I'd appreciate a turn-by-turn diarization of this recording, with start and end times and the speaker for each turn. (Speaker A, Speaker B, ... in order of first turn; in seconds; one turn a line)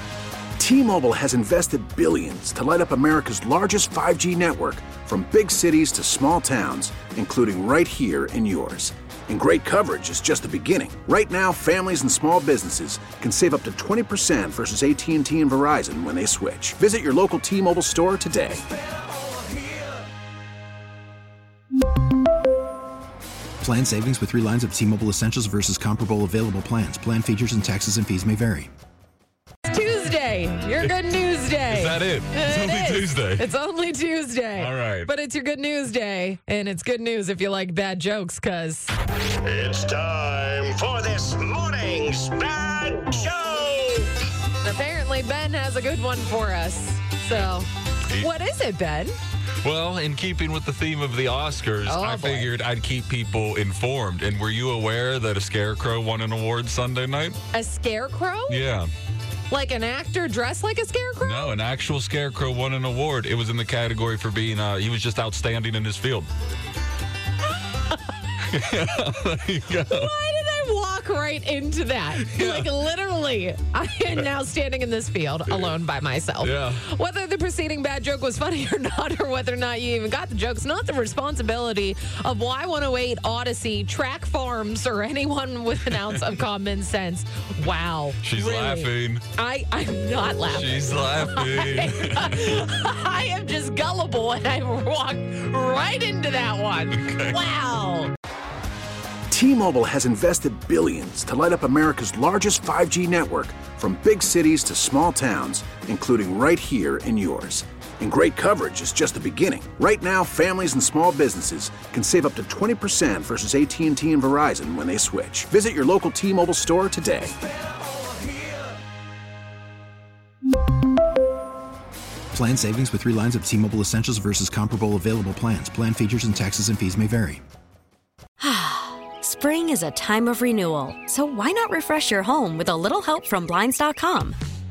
Speaker A: 0.6-18.6
Speaker B: 23.6-28.7
Speaker C: 29.7-38.9
Speaker D: 31.7-33.5
Speaker D: 34.5-35.1
Speaker E: 39.5-44.1
Speaker C: 44.6-49.1
Speaker D: 49.6-57.4
Speaker C: 51.9-52.5
Speaker C: 57.5-58.6
Speaker D: 58.5-58.9
Speaker C: 59.5-61.5
Speaker D: 61.2-66.3
Speaker D: 68.5-70.1
Speaker C: 69.9-98.1
Speaker D: 72.2-72.7
Speaker D: 75.5-75.8
Speaker D: 76.4-76.8
Speaker D: 85.9-86.3
Speaker D: 88.2-89.2
Speaker D: 90.5-92.6
Speaker D: 96.9-97.4
Speaker A: 99.3-117.3
Speaker B: 122.3-127.4
Speaker F: 128.4-134.4